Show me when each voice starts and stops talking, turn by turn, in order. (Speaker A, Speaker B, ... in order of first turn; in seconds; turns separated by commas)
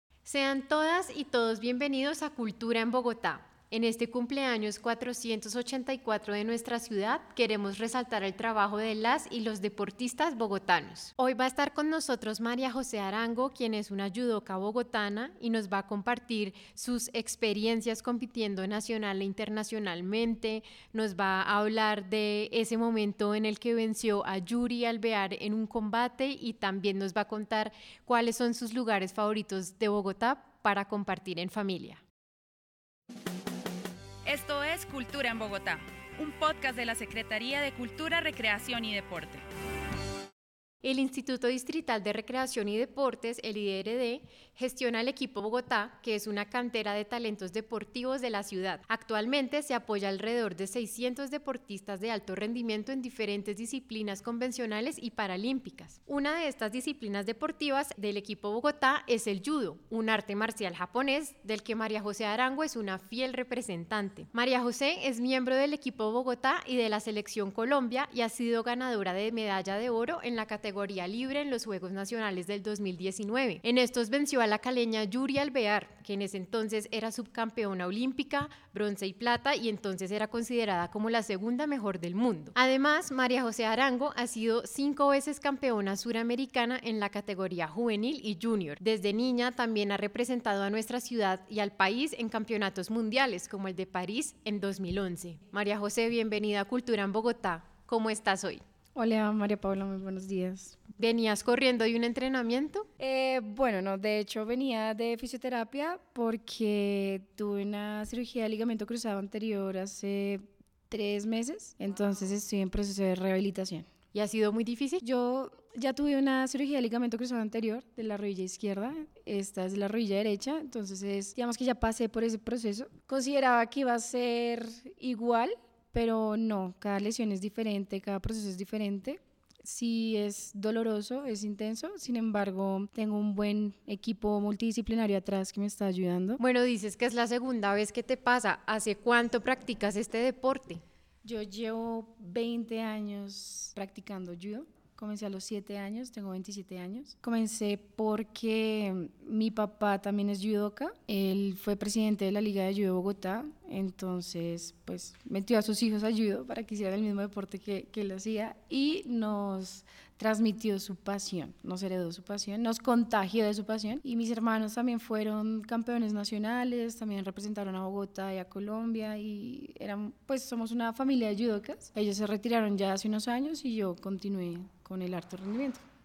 Speaker A: 0.2-32.0, Speaker B: 34.3-39.4, Speaker A: 40.8-98.6, Speaker C: 98.9-100.8, Speaker A: 101.0-102.9, Speaker C: 103.0-113.9, Speaker A: 114.1-115.0, Speaker C: 115.0-136.4, Speaker A: 136.4-140.8, Speaker C: 141.2-175.8